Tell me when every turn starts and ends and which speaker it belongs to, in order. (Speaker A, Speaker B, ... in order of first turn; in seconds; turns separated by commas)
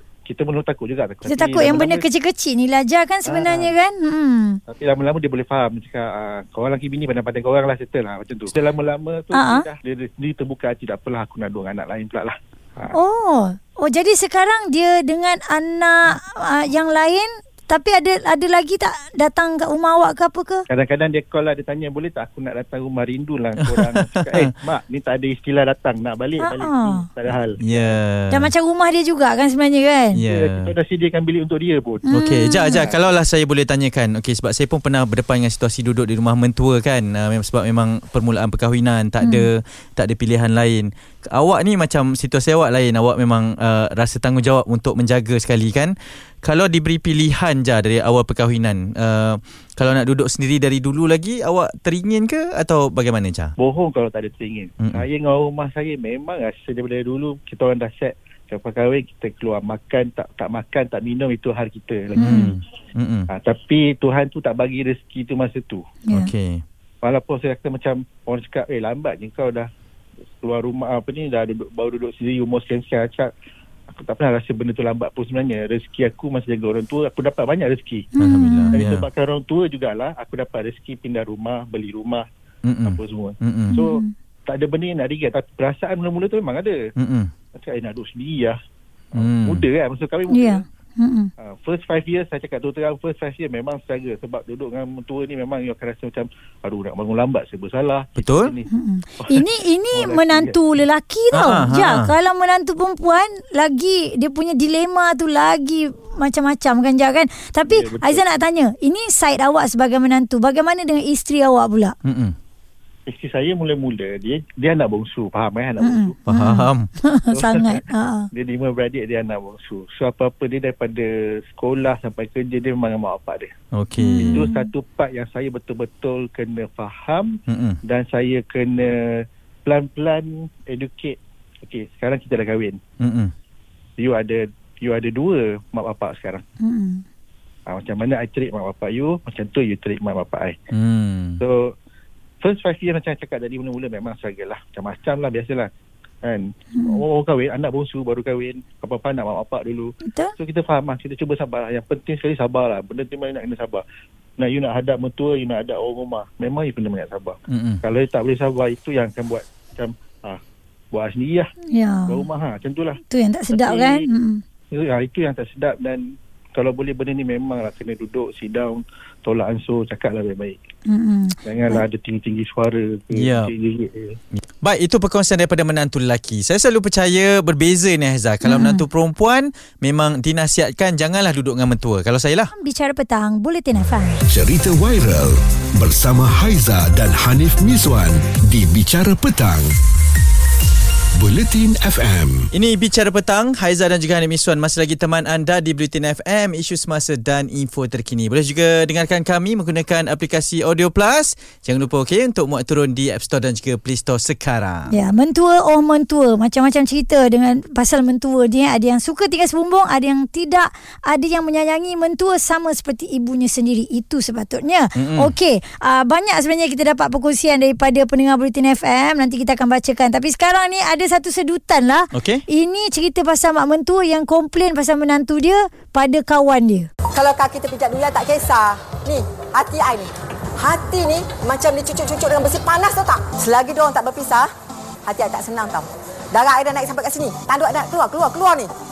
Speaker A: 0.2-2.0, Speaker B: 1.2-4.6, Speaker A: 3.2-3.7, Speaker A: 4.7-12.9, Speaker B: 9.3-9.7, Speaker B: 12.9-20.6, Speaker A: 20.7-27.6, Speaker C: 23.6-24.5, Speaker B: 26.4-27.1, Speaker C: 27.6-28.5, Speaker B: 28.3-30.2, Speaker C: 30.1-30.7, Speaker A: 30.3-32.0, Speaker B: 32.1-32.9, Speaker C: 32.1-53.5, Speaker A: 53.6-62.5, Speaker C: 54.8-55.0, Speaker B: 62.1-62.5, Speaker C: 62.2-63.3, Speaker A: 63.3-65.8, Speaker C: 66.1-66.6, Speaker A: 67.0-69.7, Speaker A: 70.4-73.3, Speaker A: 73.9-78.1, Speaker B: 78.2-78.8, Speaker C: 78.2-79.0, Speaker A: 78.7-82.2, Speaker C: 82.6-83.8, Speaker A: 82.9-86.8, Speaker B: 83.7-84.1, Speaker C: 87.0-87.3, Speaker A: 87.6-88.5, Speaker A: 89.1-90.6, Speaker C: 89.1-89.6, Speaker B: 90.3-91.3, Speaker A: 91.4-98.5, Speaker C: 98.2-98.5, Speaker B: 98.7-112.0, Speaker A: 99.2-100.5, Speaker C: 101.3-102.1, Speaker A: 107.7-108.2, Speaker C: 112.0-112.3, Speaker A: 113.1-116.2, Speaker B: 115.8-118.3, Speaker C: 116.3-116.9, Speaker A: 117.3-123.5, Speaker C: 123.7-124.4, Speaker B: 124.0-124.7, Speaker A: 124.2-127.4, Speaker C: 127.5-127.8, Speaker A: 127.9-132.8, Speaker C: 133.0-133.3, Speaker A: 134.0-136.4, Speaker B: 136.6-137.0, Speaker A: 137.7-140.6, Speaker C: 140.7-141.4, Speaker A: 141.4-141.7, Speaker A: 142.4-145.7, Speaker A: 146.2-153.8, Speaker B: 146.7-147.0, Speaker B: 150.0-150.3, Speaker A: 154.4-160.4, Speaker C: 157.5-157.8, Speaker A: 160.9-161.5, Speaker B: 161.7-162.2, Speaker A: 162.1-163.0, Speaker B: 163.1-164.4, Speaker A: 163.5-164.1, Speaker A: 164.7-170.6, Speaker B: 170.9-171.8, Speaker A: 171.4-174.2, Speaker C: 173.1-173.5, Speaker C: 174.3-182.5, Speaker B: 178.4-178.8, Speaker B: 182.5-184.2, Speaker D: 184.3-189.7, Speaker D: 191.2-192.4, Speaker C: 192.5-204.9, Speaker B: 204.9-226.9, Speaker C: 214.9-215.3, Speaker C: 222.1-222.4, Speaker E: 227.1-234.5, Speaker E: 235.1-238.7